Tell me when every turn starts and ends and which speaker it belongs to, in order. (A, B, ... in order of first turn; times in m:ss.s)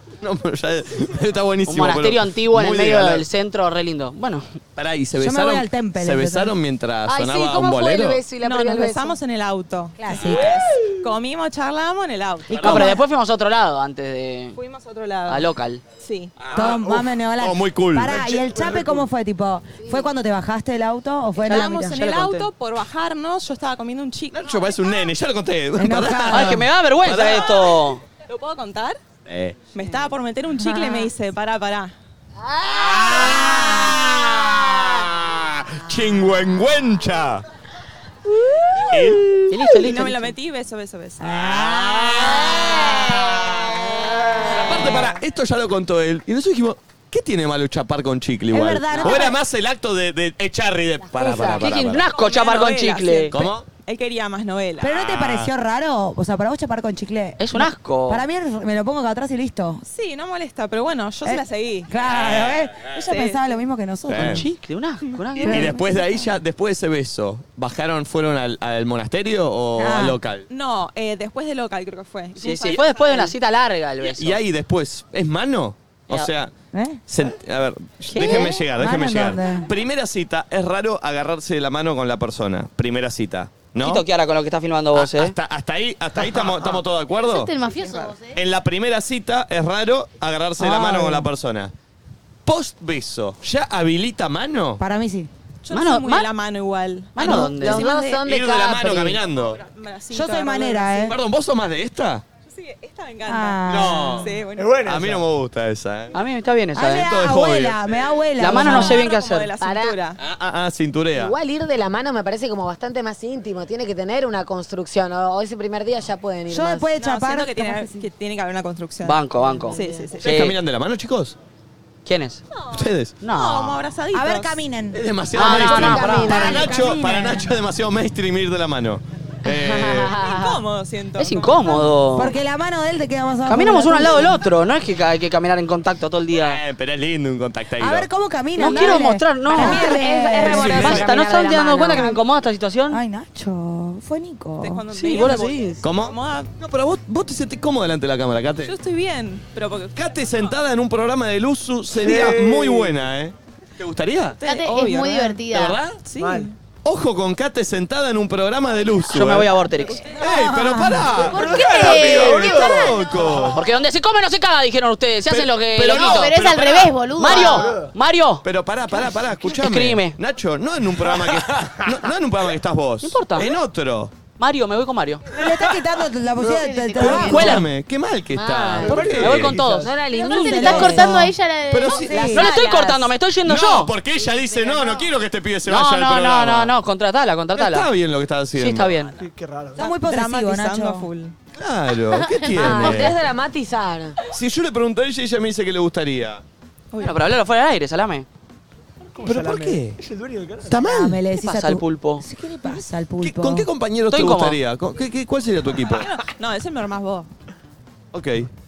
0:00.2-0:03.2 A
0:01.7-0:04.6 B
0:04.8-0:08.2 A
0:05.2-0:06.5 C
0:07.1-0:09.2 D
0:08.4-0:13.0 E
0:10.0-0:10.6 C
0:10.2-0:10.6 A
0:12.5-0:13.0 A
0:12.5-0:14.6 B
0:14.6-0:15.5 E
0:15.3-0:15.8 B
0:16.0-0:16.3 E
0:16.4-0:18.4 A
0:16.5-0:22.0 C
0:18.2-0:19.0 F
0:21.4-0:24.5 E
0:21.5-0:22.5 B
0:24.3-0:27.8 A
0:25.8-0:26.6 C
0:26.3-0:28.0 B
0:28.3-0:29.0 E
0:29.3-0:29.6 A
0:29.7-0:31.9 E
0:30.6-0:31.1 C
0:32.4-0:33.4 D
0:32.7-0:37.4 A
0:38.8-0:39.3 A
0:39.5-0:40.3 B
0:39.7-0:41.3 E
0:41.2-0:43.9 A
0:41.4-0:42.4 C
0:44.4-0:52.1 A
0:48.5-0:49.4 C
0:51.1-0:51.6 D
0:51.5-0:53.4 B
0:52.1-0:54.9 E
0:53.3-0:53.7 A
0:54.8-0:59.8 C
0:54.9-0:55.5 A
0:57.4-0:58.2 B
0:59.8-1:01.9 E
1:01.2-1:04.5 C
1:02.1-1:02.7 A
1:02.9-1:03.4 E
1:04.1-1:04.4 A
1:04.2-1:05.7 B
1:05.5-1:05.8 C
1:05.5-1:10.5 A
1:09.8-1:10.2 C
1:10.5-1:13.4 E
1:12.4-1:14.4 B
1:14.2-1:16.5 A
1:16.7-1:17.0 C
1:17.1-1:24.0 A
1:18.1-1:18.5 B
1:18.2-1:19.7 C
1:23.8-1:25.3 B
1:24.9-1:27.5 A
1:27.1-1:28.4 G
1:28.4-1:31.7 A
1:30.6-1:31.3 C
1:32.5-1:34.8 A
1:34.8-1:35.3 C
1:35.6-1:38.2 E
1:35.7-1:36.3 B
1:37.2-1:37.9 B
1:37.4-1:39.2 D
1:38.2-1:39.6 A
1:39.6-1:41.1 E
1:40.1-1:41.2 C
1:41.1-1:42.2 A
1:42.5-1:44.8 E
1:43.3-1:44.3 C
1:43.7-1:46.2 A
1:44.5-1:45.3 F
1:46.1-1:47.1 B
1:46.8-1:49.1 C
1:46.9-1:48.0 A
1:48.4-1:49.5 B
1:48.4-1:50.2 E
1:49.6-1:50.0 D
1:50.2-1:51.4 A
1:51.2-1:56.9 D
1:56.5-1:58.1 C
1:57.0-2:00.4 E
1:59.0-2:00.5 B
2:00.2-2:01.4 A
2:02.0-2:02.4 B
2:02.6-2:04.6 E
2:02.7-2:03.2 A
2:03.2-2:03.8 B
2:04.1-2:05.0 C
2:04.9-2:10.2 A
2:05.4-2:06.6 B
2:05.4-2:06.8 D
2:06.0-2:07.6 C
2:09.5-2:10.6 D
2:10.2-2:11.9 E
2:11.2-2:12.3 B
2:12.2-2:14.4 C
2:13.5-2:16.6 B
2:16.4-2:18.1 A
2:17.8-2:21.1 C
2:18.6-2:23.0 B
2:19.5-2:22.2 D
2:20.4-2:21.1 A
2:21.9-2:22.2 C
2:22.9-2:24.8 C
2:24.6-2:26.5 E
2:24.9-2:25.8 B
2:25.8-2:28.8 A
2:28.6-2:30.1 E
2:30.0-2:34.4 A
2:31.9-2:33.0 F
2:34.4-2:35.4 E
2:34.4-2:35.8 G
2:35.5-2:36.0 A
2:36.1-2:36.5 E
2:36.1-2:36.5 F
2:36.8-2:39.5 A
2:39.1-2:40.1 B
2:40.2-2:43.6 A
2:40.2-2:41.1 C
2:41.2-2:43.6 G
2:41.2-2:43.5 F
2:43.5-2:46.3 B
2:45.3-2:47.0 A
2:45.8-2:47.7 G
2:47.2-2:48.4 B
2:47.4-2:47.9 F
2:48.4-2:54.1 A
2:49.4-2:50.2 B
2:51.0-2:52.1 F
2:53.0-2:53.5 B
2:54.4-2:55.2 B
2:55.3-2:57.6 C
2:56.4-2:57.3 F
2:56.4-2:57.6 G
2:57.0-2:59.6 A
2:58.4-2:59.2 D
2:58.8-3:00.0 F
2:59.1-2:59.9 B
2:59.8-3:01.1 D
3:00.1-3:02.5 G
3:00.2-3:01.3 C
3:01.7-3:02.2 A
3:01.9-3:02.5 C
3:02.1-3:03.1 D
3:02.3-3:03.9 B
3:03.5-3:06.7 A
3:04.2-3:05.1 G
3:05.7-3:07.9 B
3:07.6-3:09.0 A
3:08.6-3:09.2 B
3:09.2-3:09.9 F
3:09.8-3:11.1 C
3:09.8-3:11.4 E
3:11.6-3:13.2 A
3:12.2-3:13.0 G
3:12.6-3:14.2 D
3:14.3-3:16.4 A
3:16.9-3:17.2 E
3:17.0-3:18.3 B
3:19.2-3:20.8 F
3:19.2-3:20.0 A
3:20.7-3:21.2 A
3:20.7-3:23.7 C
3:21.4-3:22.2 B
3:23.2-3:26.1 A
3:24.1-3:24.6 B
3:25.9-3:27.3 E
3:28.1-3:28.5 A